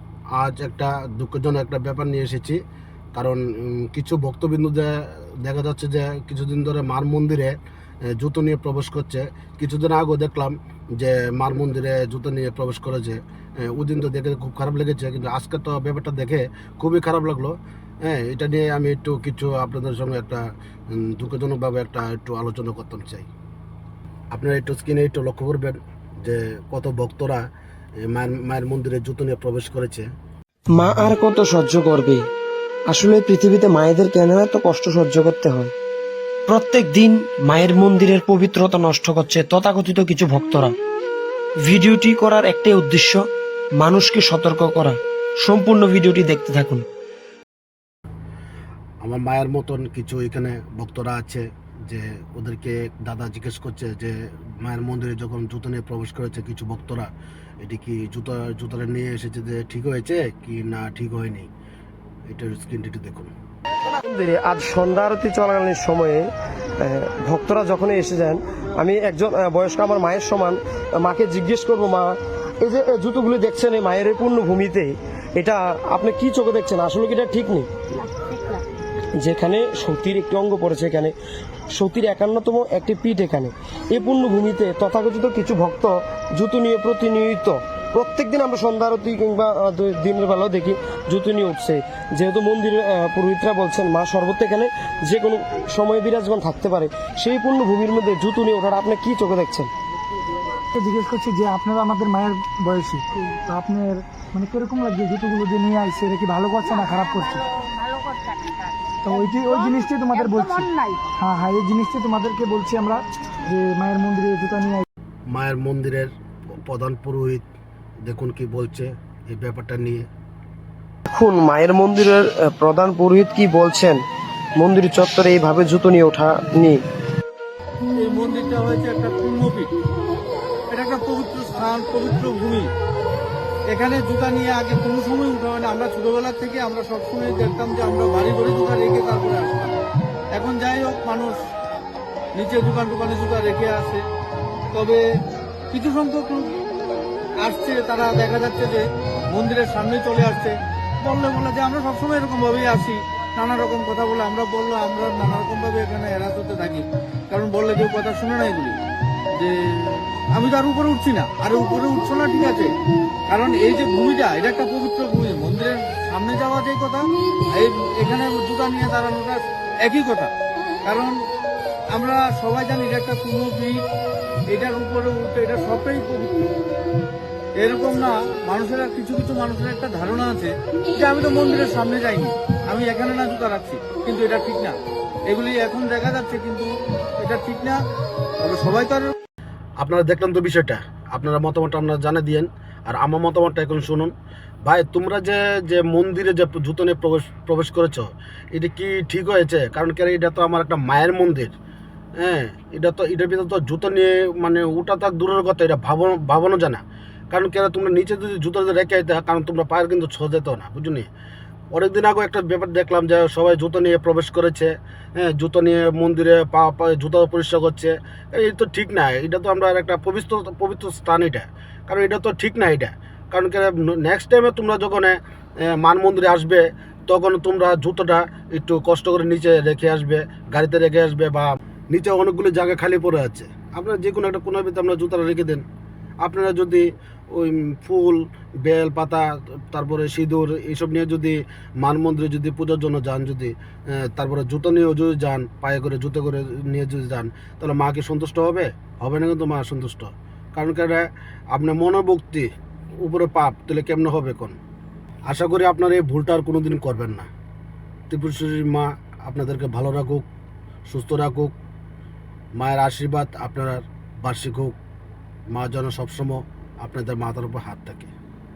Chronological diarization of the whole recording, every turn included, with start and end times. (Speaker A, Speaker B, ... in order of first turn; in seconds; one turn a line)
Speaker A: 0.4-2.6
Speaker A: 3.1-7.5
Speaker A: 8.2-17.6
Speaker A: 18.1-20.4
Speaker A: 21.0-23.3
Speaker A: 24.3-27.4
Speaker A: 28.1-30.1
Speaker B: 30.7-32.2
Speaker B: 32.9-35.7
Speaker B: 36.5-40.8
Speaker B: 41.6-43.2
Speaker B: 43.8-46.9
Speaker A: 49.0-57.1
Speaker A: 57.6-61.5
Speaker A: 62.3-63.3
Speaker B: 64.0-66.3
Speaker B: 66.8-77.7
Speaker C: 78.0-78.6
Speaker B: 79.2-81.1
Speaker B: 81.7-99.7
Speaker D: 100.7-107.4
Speaker C: 106.7-111.0
Speaker D: 109.0-114.9
Speaker A: 115.3-116.1
Speaker A: 116.7-117.4
Speaker A: 118.1-120.1
Speaker B: 121.1-124.0
Speaker B: 124.6-126.8
Speaker E: 128.0-129.7
Speaker E: 130.7-132.7
Speaker E: 133.7-139.8
Speaker E: 140.3-141.4
Speaker E: 142.3-144.0
Speaker E: 144.7-145.0
Speaker E: 145.7-146.5
Speaker E: 147.4-158.8
Speaker E: 159.4-162.7
Speaker E: 163.3-170.3
Speaker E: 170.8-171.2
Speaker E: 171.9-173.8
Speaker E: 174.5-176.4
Speaker E: 177.6-184.8
Speaker E: 185.3-186.7
Speaker E: 187.2-187.8
Speaker E: 188.4-189.1
Speaker A: 189.8-194.1
Speaker A: 194.7-201.5
Speaker A: 202.2-211.1
Speaker A: 211.7-225.2
Speaker A: 225.7-235.6
Speaker A: 236.2-243.5
Speaker A: 244.0-252.5
Speaker A: 253.0-254.6
Speaker A: 255.3-257.3
Speaker A: 258.1-260.2
Speaker A: 260.9-261.5
Speaker A: 262.6-264.7
Speaker A: 265.5-268.1